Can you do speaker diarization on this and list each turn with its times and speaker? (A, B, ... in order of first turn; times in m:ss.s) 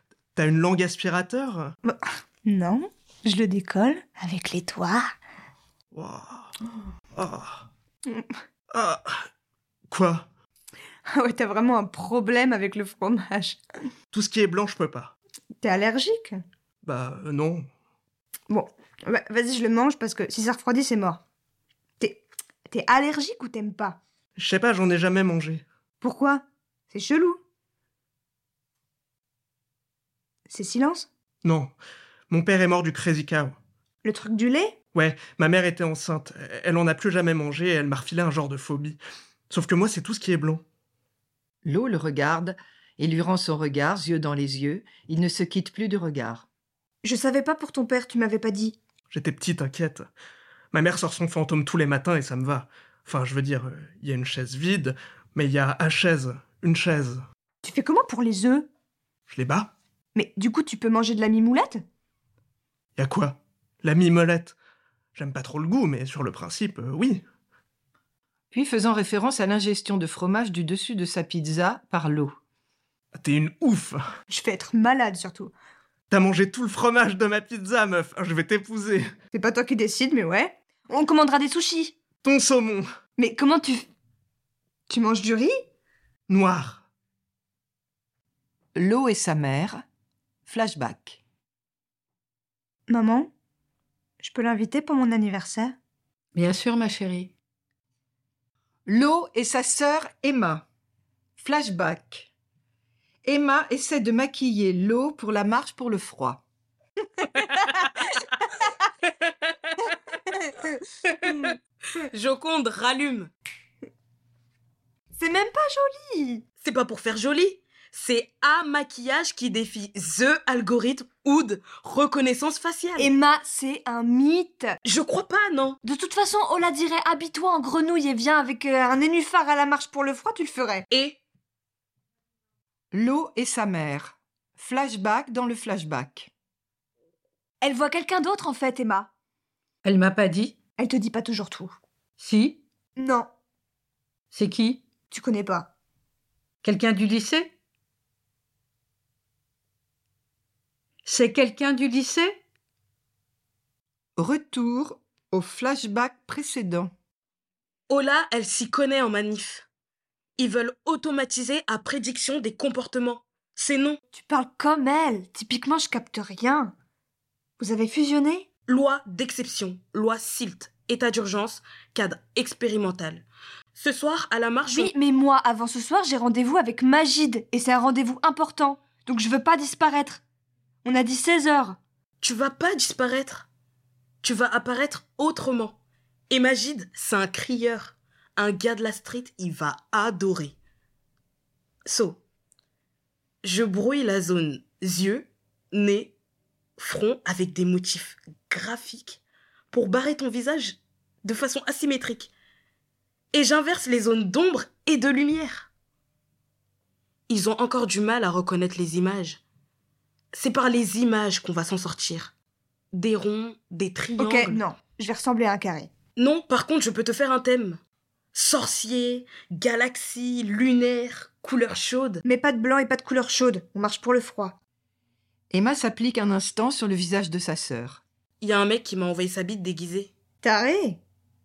0:00.3-0:01.7 A
0:01.8-0:05.1 B
0:05.9-0:06.5 A
0:07.2-0:07.6 A
0:08.7-0:09.2 A
0:09.9-0:10.3 A
0:11.1-0:13.6 B
0:14.1-0:15.1 A
0:15.6-0:16.4 B
0:16.8-0:17.7 A
0:18.5-0:21.2 B
0:22.0-0:24.0 B
0:24.4-0:25.6 A
0:26.0-0:27.4 B
0:30.5-0:31.1 B
0:31.4-0:31.7 A
0:32.3-0:33.6 A
0:34.0-0:34.8 B
0:34.9-0:39.0 A
0:39.5-0:40.6 A
0:41.6-0:46.4 C
0:47.0-0:48.8 B
0:49.1-0:50.1 A
0:50.7-0:57.2 A
0:57.6-0:58.7 B
0:59.3-0:59.7 A
1:00.1-1:01.8 B
1:03.0-1:04.6 A
1:05.1-1:07.2 A
1:08.5-1:12.4 C
1:13.1-1:14.0 A
1:14.3-1:15.5 B
1:16.1-1:19.1 A
1:19.3-1:21.9 B
1:22.2-1:22.9 A
1:23.2-1:23.8 B
1:24.9-1:25.5 B
1:26.3-1:26.8 A
1:28.7-1:29.8 C
1:30.4-1:31.2 C
1:32.9-1:33.3 B
1:34.2-1:35.7 B
1:36.3-1:37.3 D
1:38.8-1:40.6 C
1:41.4-1:42.3 C
1:43.2-1:46.4 C
1:47.4-1:48.2 E
1:49.7-1:49.9 E
1:51.1-1:53.3 E
1:51.2-1:51.5 B
1:55.1-1:56.4 B
1:56.6-2:03.1 E
2:03.0-2:04.8 B
2:04.8-2:05.8 E
2:05.8-2:10.8 B
2:10.9-2:11.2 E
2:12.9-2:16.3 C
2:17.6-2:19.1 B
2:19.8-2:20.5 D
2:20.8-2:21.8 B
2:22.2-2:22.6 D
2:23.0-2:23.3 B
2:24.3-2:24.8 D
2:25.1-2:25.7 B
2:26.6-2:27.5 D
2:31.0-2:32.4 D
2:34.2-2:36.9 C
2:37.9-2:39.6 E
2:40.4-2:44.0 E
2:44.1-2:46.7 B
2:47.6-2:48.4 B
2:48.7-2:53.2 E
2:53.8-2:54.9 E
2:54.7-3:00.2 B
3:00.8-3:01.8 B
3:02.2-3:03.5 E
3:04.2-3:05.8 E
3:06.3-3:10.5 E
3:11.8-3:12.2 E
3:13.4-3:16.1 E
3:16.8-3:22.3 E
3:23.3-3:25.7 E
3:27.3-3:29.4 E
3:30.3-3:32.3 E
3:32.9-3:34.6 E
3:34.2-3:35.9 B
3:36.2-3:37.8 E
3:38.3-3:42.2 E
3:42.2-3:44.6 B
3:45.5-3:48.0 C
3:48.4-3:50.1 E
3:50.4-3:51.0 B